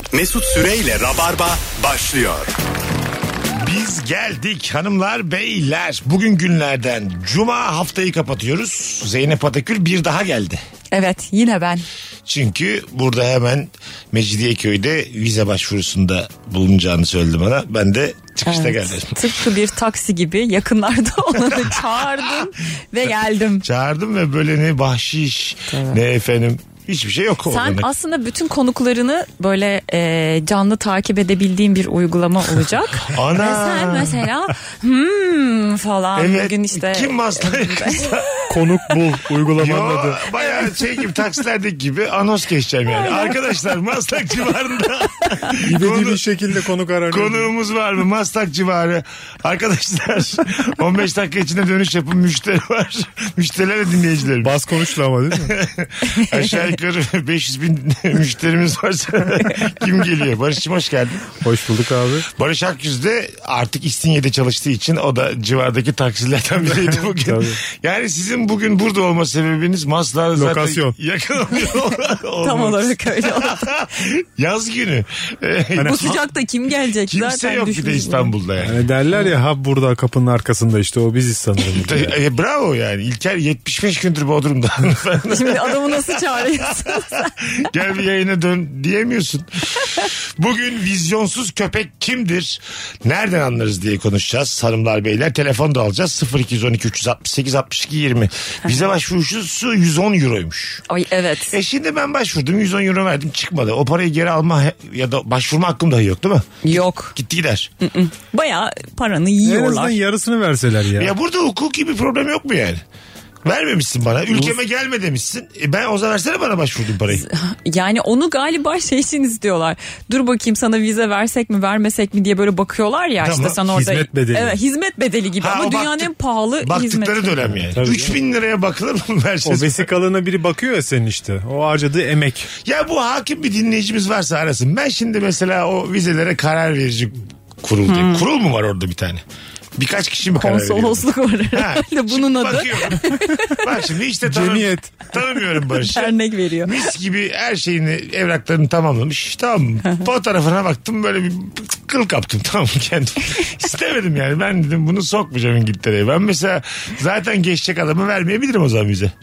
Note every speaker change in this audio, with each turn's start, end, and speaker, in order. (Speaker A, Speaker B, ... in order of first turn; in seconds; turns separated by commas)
Speaker A: 0.1-2.5, Speaker B: 3.5-10.6, Speaker C: 10.9-11.8, Speaker B: 12.3-19.2, Speaker C: 18.4-23.6, Speaker B: 23.6-27.9, Speaker C: 25.7-26.0, Speaker C: 27.5-38.1, Speaker B: 33.1-34.3, Speaker B: 36.1-38.3, Speaker D: 38.5-40.2, Speaker B: 39.5-46.2, Speaker C: 42.9-43.4, Speaker D: 45.6-47.5, Speaker B: 47.1-54.6, Speaker D: 54.4-55.5, Speaker B: 55.4-61.4, Speaker C: 56.1-56.5, Speaker D: 61.4-62.3, Speaker B: 62.3-76.2, Speaker D: 66.6-67.6, Speaker D: 70.3-71.0, Speaker C: 72.4-73.7, Speaker C: 75.8-78.3, Speaker B: 77.1-78.8, Speaker D: 78.6-82.2, Speaker B: 81.7-86.5, Speaker C: 85.3-87.3, Speaker B: 87.6-100.8, Speaker C: 100.9-101.5, Speaker B: 101.5-107.7, Speaker C: 106.6-107.1, Speaker C: 107.8-110.0, Speaker D: 109.4-111.1, Speaker B: 111.0-112.8, Speaker B: 113.4-117.2, Speaker D: 114.3-114.6, Speaker C: 117.1-127.6, Speaker B: 123.2-123.6, Speaker D: 123.6-124.5, Speaker B: 125.4-126.1, Speaker B: 126.6-129.8, Speaker D: 127.6-128.2, Speaker D: 129.4-132.5, Speaker B: 132.6-139.2, Speaker C: 137.9-138.2, Speaker B: 139.8-159.1, Speaker C: 140.3-143.6, Speaker D: 144.2-145.1, Speaker C: 145.9-146.8